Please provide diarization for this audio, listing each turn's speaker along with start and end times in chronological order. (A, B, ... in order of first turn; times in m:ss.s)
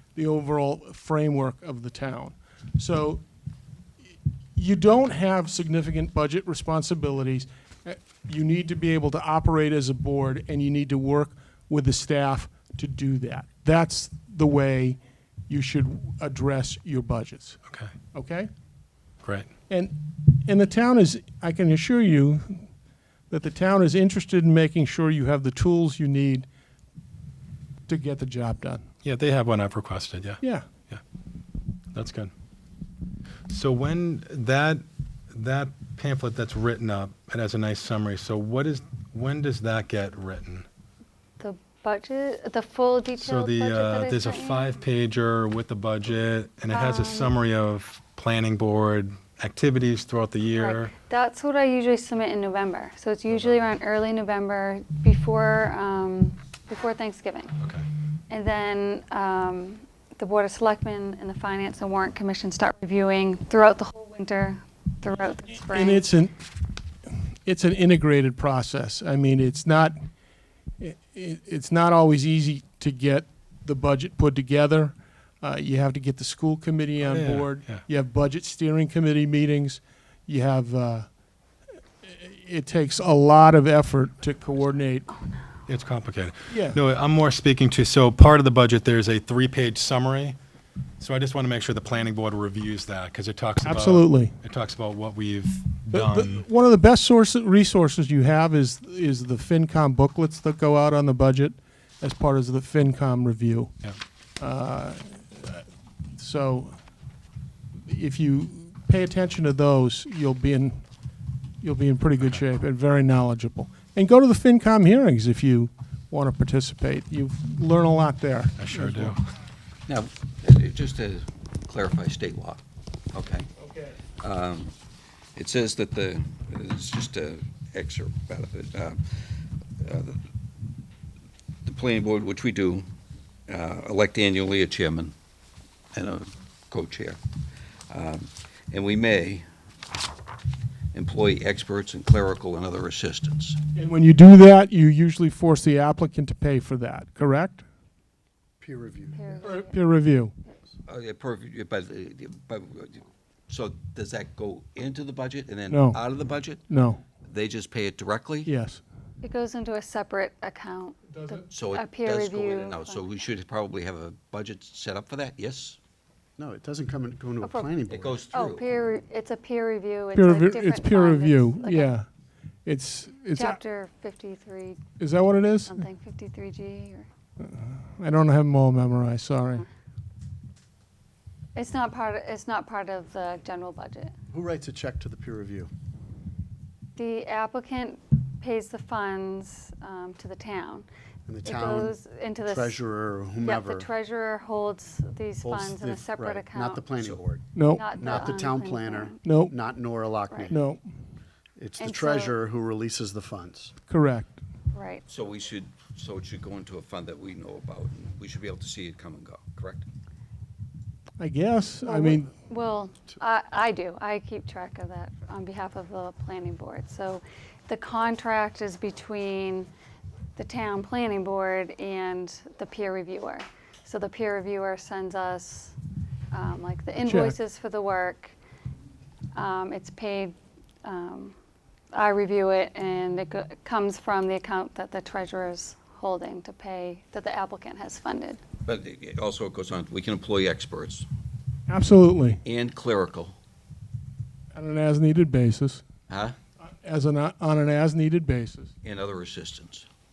0:00.1-0:03.2 A
0:04.6-0:17.6 A
0:18.1-0:18.5 A
0:19.2-0:19.5 B
0:19.7-0:22.6 A
0:23.3-0:26.5 A
0:27.9-0:28.8 A
0:29.0-0:31.0 B
0:30.4-0:30.7 A
0:31.9-0:32.3 B
0:33.5-0:40.6 B
0:41.4-0:44.8 C
0:43.2-0:50.9 B
0:46.7-0:47.3 C
0:50.6-0:57.5 C
0:57.6-0:57.8 B
0:58.3-1:06.0 C
1:05.5-1:06.4 A
1:07.4-1:10.0 A
1:10.8-1:21.1 A
1:17.0-1:17.8 B
1:22.0-1:25.1 A
1:25.7-1:30.4 B
1:26.5-1:26.8 A
1:31.0-1:36.4 B
1:33.6-1:34.3 A
1:35.9-1:43.7 A
1:44.4-1:45.6 A
1:46.2-1:46.8 A
1:47.8-1:50.8 A
1:51.6-1:59.2 A
1:58.6-1:59.2 B
1:59.9-2:02.6 D
2:03.1-2:03.4 D
2:03.6-2:04.0 A
2:04.2-2:04.7 D
2:05.3-2:09.0 D
2:09.8-2:10.2 D
2:11.6-2:12.8 D
2:13.5-2:15.1 D
2:15.9-2:17.2 D
2:17.9-2:19.4 D
2:20.9-2:23.6 D
2:23.7-2:27.6 A
2:28.6-2:29.5 E
2:29.1-2:29.9 C
2:29.4-2:30.3 A
2:30.8-2:36.6 D
2:35.7-2:36.0 A
2:36.7-2:37.0 A
2:37.2-2:38.5 D
2:38.4-2:38.8 A
2:39.2-2:43.0 C
2:41.1-2:41.4 A
2:41.5-2:45.8 D
2:46.4-2:48.3 E
2:47.4-2:47.8 C
2:47.9-2:48.7 D
2:48.3-2:51.9 C
2:50.1-2:52.0 A
2:52.6-2:53.6 A
2:53.3-2:54.8 C
2:55.0-2:55.8 A
2:55.7-2:57.1 C
2:57.4-2:59.6 A
3:01.5-3:04.1 C
3:04.3-3:05.7 E
3:07.0-3:10.9 C
3:11.3-3:13.9 E
3:11.4-3:12.8 C
3:13.4-3:16.9 C
3:15.4-3:20.6 E
3:17.5-3:17.8 A
3:17.7-3:19.2 C
3:19.2-3:19.5 A
3:20.3-3:20.5 C
3:20.5-3:20.8 A
3:21.6-3:23.7 E
3:21.8-3:22.4 C
3:23.9-3:24.4 A
3:24.7-3:25.0 C
3:25.1-3:29.8 D
3:31.2-3:32.3 A
3:31.8-3:39.7 C
3:40.4-3:45.7 C
3:46.3-3:48.3 C
3:47.0-3:47.4 A
3:49.3-3:51.3 C
3:51.9-3:58.4 C
3:58.6-4:01.0 D
4:01.7-4:02.4 A
4:02.4-4:03.4 D
4:04.5-4:05.8 A
4:06.1-4:06.4 D
4:06.6-4:08.7 A
4:08.8-4:09.8 D